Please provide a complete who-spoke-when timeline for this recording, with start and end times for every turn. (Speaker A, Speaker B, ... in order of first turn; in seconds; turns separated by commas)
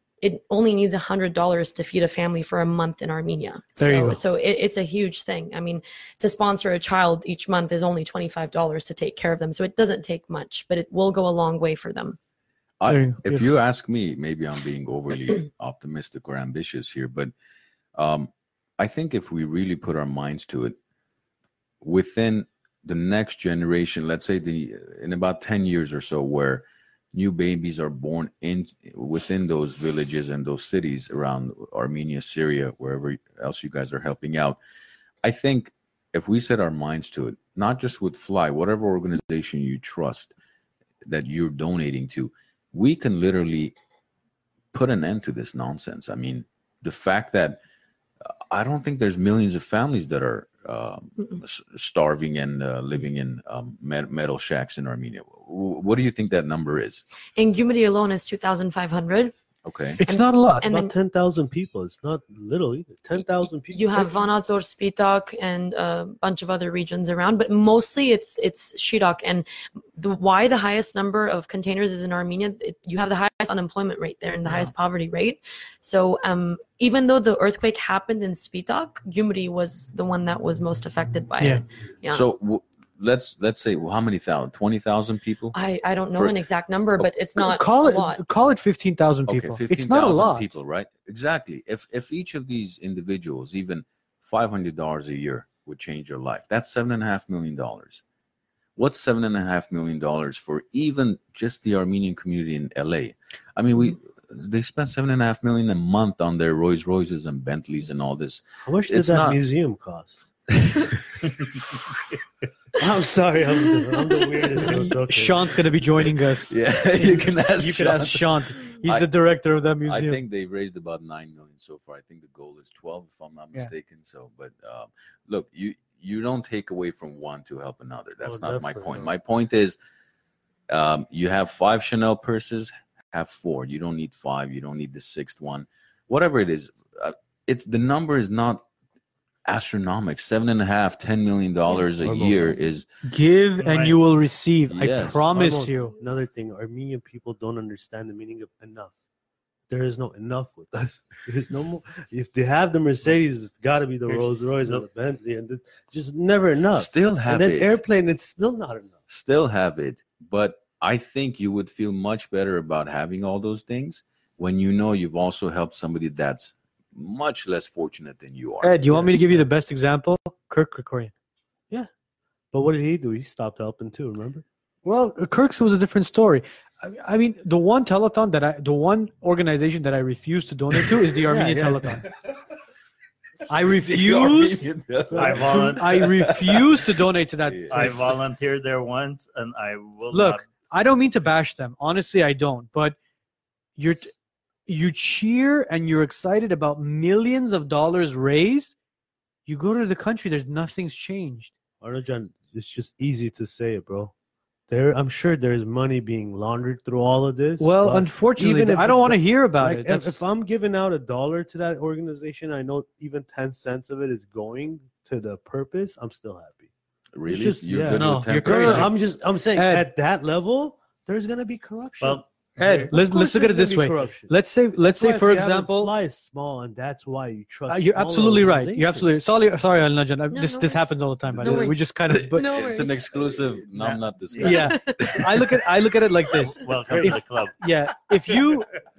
Speaker A: 0.2-12.2, Speaker B: 3.8-4.2, Speaker C: 12.8-17.3, Speaker B: 12.9-13.4, Speaker C: 17.9-20.8, Speaker C: 21.8-34.6, Speaker C: 35.2-40.3, Speaker C: 41.0-43.7, Speaker C: 44.7-47.6, Speaker C: 48.2-57.0, Speaker A: 57.4-59.3, Speaker C: 59.6-60.0, Speaker B: 60.0-60.6, Speaker A: 60.0-60.9, Speaker D: 60.6-64.2, Speaker A: 63.1-82.2, Speaker C: 74.5-74.7, Speaker C: 82.1-85.5, Speaker A: 85.5-88.2, Speaker B: 87.4-90.4, Speaker C: 89.3-98.0, Speaker C: 98.8-109.4, Speaker D: 108.6-110.2, Speaker C: 110.6-111.0, Speaker D: 112.8-115.6, Speaker B: 114.6-120.2, Speaker C: 116.3-119.1, Speaker C: 119.8-129.8, Speaker D: 128.2-129.1, Speaker C: 130.7-138.6, Speaker C: 139.4-142.8, Speaker D: 142.0-142.6, Speaker B: 143.0-145.9, Speaker E: 143.6-144.0, Speaker C: 144.7-145.3, Speaker D: 145.3-148.9, Speaker A: 145.6-146.3, Speaker D: 149.7-158.9, Speaker E: 154.1-154.8, Speaker C: 156.7-157.8, Speaker C: 159.1-169.2, Speaker B: 168.6-171.1, Speaker D: 172.5-174.4, Speaker B: 174.8-182.0, Speaker C: 180.7-182.1, Speaker B: 183.5-184.7, Speaker C: 183.6-188.0, Speaker D: 185.1-185.6, Speaker E: 185.2-186.0, Speaker B: 185.2-188.1, Speaker E: 187.7-190.5, Speaker B: 190.1-192.9, Speaker B: 193.8-194.1, Speaker B: 194.7-198.7, Speaker B: 199.4-201.5, Speaker D: 201.8-204.1, Speaker D: 204.7-216.7, Speaker B: 207.6-210.2, Speaker C: 217.1-218.9, Speaker D: 217.2-229.1, Speaker B: 217.8-218.9, Speaker B: 219.6-219.9, Speaker E: 222.0-222.9, Speaker B: 222.6-225.9, Speaker B: 227.7-232.5, Speaker A: 230.3-233.5, Speaker C: 232.1-235.5, Speaker E: 233.7-234.4, Speaker B: 234.4-238.7, Speaker A: 234.4-235.6, Speaker E: 236.4-237.6, Speaker D: 236.9-237.2, Speaker E: 238.3-238.8